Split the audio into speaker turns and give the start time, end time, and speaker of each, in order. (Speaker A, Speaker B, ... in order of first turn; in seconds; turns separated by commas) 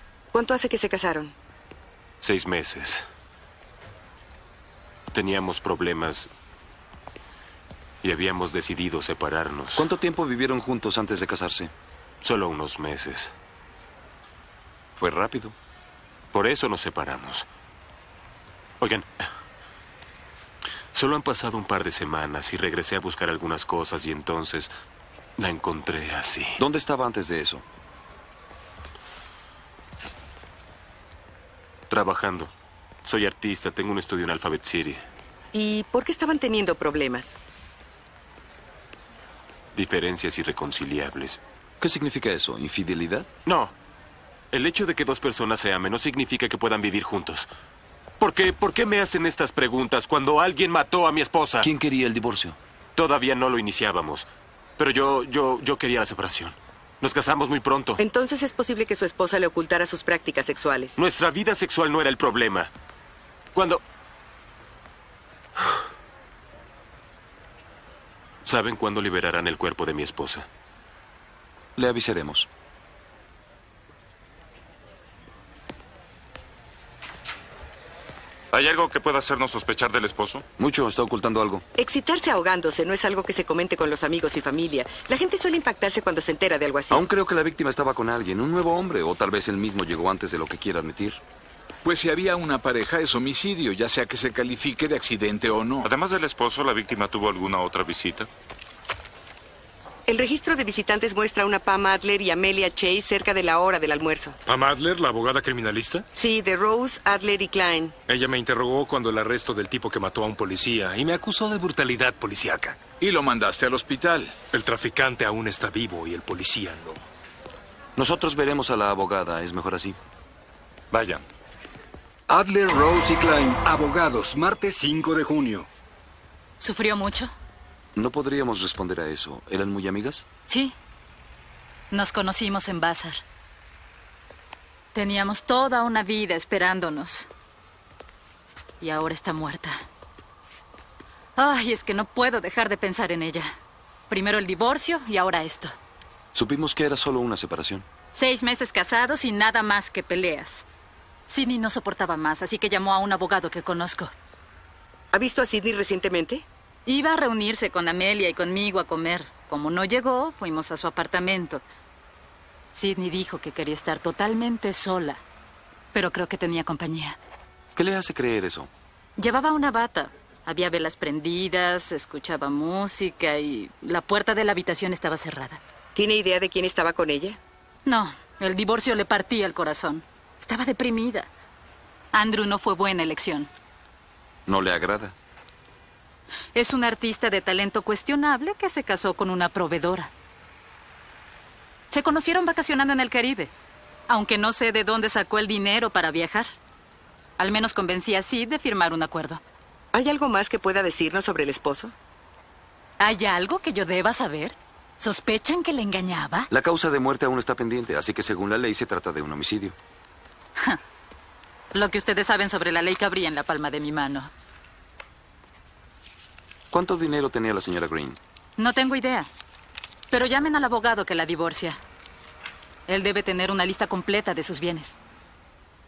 Speaker A: 0.3-1.3, Speaker B: 2.2-3.1, Speaker B: 5.1-6.3, Speaker B: 8.0-9.9, Speaker C: 9.8-11.7, Speaker B: 12.2-13.3, Speaker C: 15.0-15.5, Speaker B: 16.3-17.5, Speaker B: 18.8-19.1, Speaker B: 20.9-24.7, Speaker B: 25.4-26.6, Speaker C: 26.6-27.6, Speaker B: 31.9-32.5, Speaker B: 33.0-35.0, Speaker A: 35.5-37.4, Speaker B: 39.7-41.4, Speaker C: 41.8-43.3, Speaker B: 43.4-43.7, Speaker B: 44.5-47.5, Speaker B: 48.2-51.7, Speaker C: 51.6-52.6, Speaker B: 53.0-58.0, Speaker A: 58.0-61.0, Speaker B: 61.0-62.7, Speaker B: 63.5-63.8, Speaker B: 68.4-70.5, Speaker C: 71.8-72.5, Speaker D: 78.5-80.5, Speaker C: 80.6-81.6, Speaker A: 81.8-87.0, Speaker C: 86.9-91.2, Speaker E: 91.8-95.9, Speaker D: 95.8-98.3, Speaker A: 100.1-104.4, Speaker F: 104.5-106.0, Speaker A: 106.2-108.0, Speaker F: 108.1-112.8, Speaker E: 113.0-114.4, Speaker F: 114.5-117.0, Speaker C: 118.0-120.0, Speaker D: 120.9-121.2, Speaker G: 122.3-125.7, Speaker H: 126.6-127.3, Speaker C: 128.0-130.2, Speaker H: 130.5-130.7, Speaker H: 131.9-133.2, Speaker H: 134.9-137.3, Speaker H: 138.8-139.8, Speaker H: 141.3-143.5, Speaker H: 144.1-145.8, Speaker C: 146.3-147.8, Speaker H: 148.1-150.7, Speaker H: 151.3-154.1, Speaker A: 155.1-156.4, Speaker H: 156.8-161.6, Speaker H: 162.7-165.2, Speaker H: 165.9-167.2, Speaker C: 167.8-168.7, Speaker H: 169.2-175.6, Speaker A: 175.9-177.4, Speaker H: 177.8-181.3, Speaker H: 182.1-183.5, Speaker C: 184.5-185.2, Speaker H: 186.5-190.1, Speaker H: 191.9-193.5, Speaker H: 194.1-196.5, Speaker H: 197.4-199.4, Speaker A: 199.9-201.9, Speaker H: 203.0-206.5, Speaker C: 206.5-209.8, Speaker H: 211.7-214.3, Speaker C: 216.7-218.2, Speaker H: 218.6-219.3, Speaker H: 220.1-221.8, Speaker H: 222.9-225.0